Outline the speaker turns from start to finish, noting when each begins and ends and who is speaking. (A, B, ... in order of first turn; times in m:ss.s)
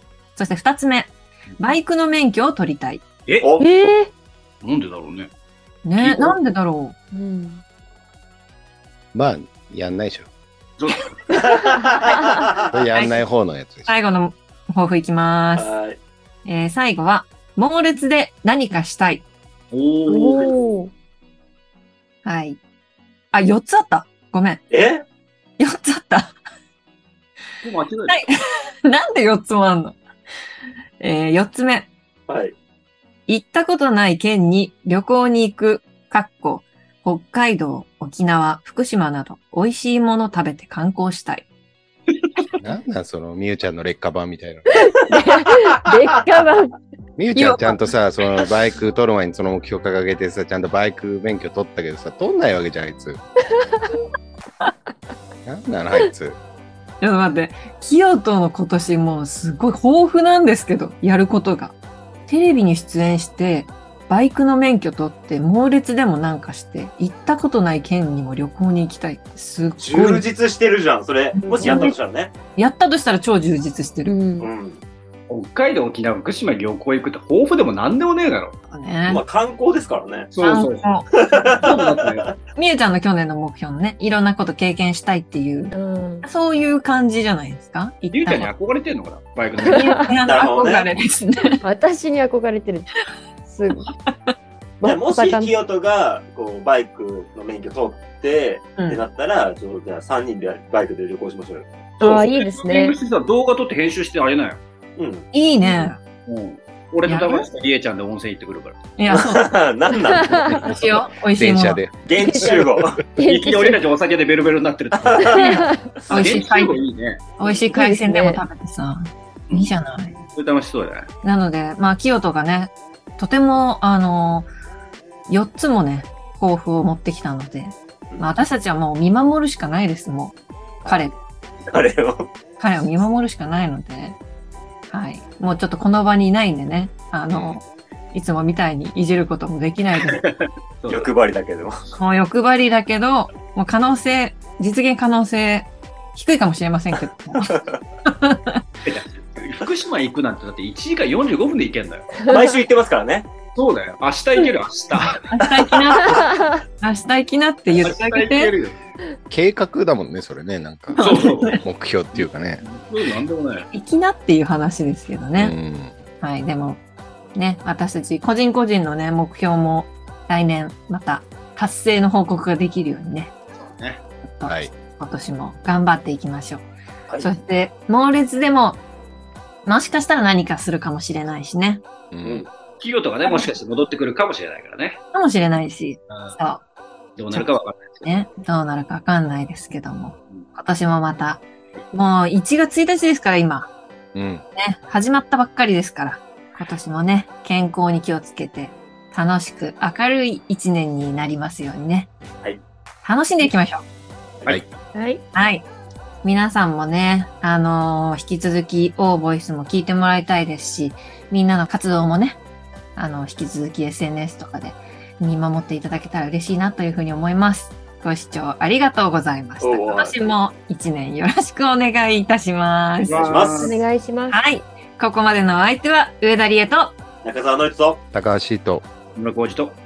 0:00.4-0:03.0 A
0:03.6-0:04.1 B
0:04.6-0:05.3 C
0:05.8-0:07.0 A
0:06.0-0:06.4 C
0:07.1-0:07.6 B
0:09.1-0:10.3 D
0:10.8-0:11.2 C
0:11.4-0:12.8 E
0:12.7-0:13.9 D
0:13.9-0:15.7 A
0:15.6-0:16.0 E
0:16.4-0:19.2 A
0:19.7-0:20.5 C
0:20.1-0:20.9 B
0:22.2-0:22.6 A
0:23.3-0:24.6 A
0:24.7-0:25.0 E
0:25.6-0:26.3 A
0:27.6-0:28.3 C
0:28.1-0:30.0 A
0:31.0-0:31.9 A
0:32.3-0:32.6 E
0:33.3-0:41.5 A
0:42.6-0:44.9 D
0:44.8-0:46.8 B
0:47.2-0:53.2 D
0:47.3-0:47.8 A
0:53.6-0:53.9 B
0:55.4-0:56.4 D
0:57.0-1:01.8 A
1:02.3-1:10.2 A
1:09.8-1:12.3 E
1:11.4-1:12.0 A
1:11.4-1:11.9 B
1:12.6-1:14.1 A
1:14.1-1:14.5 B
1:14.4-1:14.8 E
1:15.3-1:18.6 C
1:18.7-1:19.2 A
1:19.1-1:20.3 E
1:20.3-1:20.9 C
1:20.4-1:21.1 A
1:21.1-1:22.3 E
1:21.6-1:22.3 C
1:22.6-1:28.5 A
1:25.7-1:26.3 B
1:28.1-1:30.1 C
1:29.6-1:31.6 A
1:29.7-1:30.0 B
1:30.2-1:30.9 E
1:31.6-1:32.9 B
1:33.4-1:33.9 B
1:34.8-1:35.5 B
1:34.8-1:41.7 E
1:38.8-1:39.0 A
1:42.0-1:44.6 C
1:42.0-1:43.0 B
1:45.0-1:45.3 E
1:45.3-1:46.0 A
1:45.6-1:45.9 B
1:46.3-1:48.9 C
1:47.1-1:47.5 A
1:49.0-1:49.5 A
1:49.1-1:50.7 E
1:50.1-1:50.7 B
1:50.5-1:52.0 D
1:50.7-1:51.8 A
1:52.1-1:53.0 E
1:52.1-1:53.8 B
1:53.2-1:55.5 C
1:55.0-1:55.4 E
1:55.3-1:55.9 B
1:55.4-1:56.8 A
1:56.1-1:57.2 C
1:57.4-2:00.2 A
1:57.7-1:58.4 B
2:00.3-2:01.1 C
2:01.2-2:04.5 A
2:05.3-2:11.1 A
2:08.1-2:08.4 E
2:11.7-2:12.3 E
2:12.6-2:14.2 A
2:14.9-2:20.2 A
2:17.3-2:17.6 E
2:20.1-2:21.1 C
2:20.9-2:21.8 E
2:21.9-2:28.6 A
2:27.4-2:27.7 E
2:28.9-2:32.2 C
2:32.3-2:33.3 E
2:33.6-2:35.3 C
2:35.1-2:36.3 A
2:36.0-2:36.6 B
2:36.8-2:38.5 A
2:37.8-2:38.8 C
2:39.3-2:42.6 D
2:41.0-2:41.6 A
2:41.0-2:41.6 C
2:42.2-2:43.7 C
2:43.7-2:45.6 A
2:45.4-2:46.0 D
2:46.2-2:46.8 A
2:47.4-2:53.3 A
2:53.5-2:54.0 C
2:54.4-2:56.6 A
2:54.5-2:54.7 D
2:57.2-2:58.8 A
2:59.6-3:01.8 A
3:02.1-3:02.5 D
3:02.8-3:05.0 C
3:03.2-3:03.5 A
3:05.1-3:06.6 A
3:06.1-3:06.4 C
3:07.2-3:08.1 C
3:08.0-3:13.7 A
3:14.1-3:14.4 D
3:14.6-3:22.1 A
3:23.0-3:23.8 A
3:24.9-3:25.2 B
3:25.3-3:25.6 A
3:26.2-3:32.4 A
3:33.0-3:43.3 A
3:39.6-3:40.3 E
3:43.0-3:43.8 C
3:43.1-3:43.8 E
3:43.5-3:44.4 B
3:44.3-3:46.9 A
3:47.2-3:48.0 E
3:48.1-3:48.8 D
3:49.2-3:49.8 C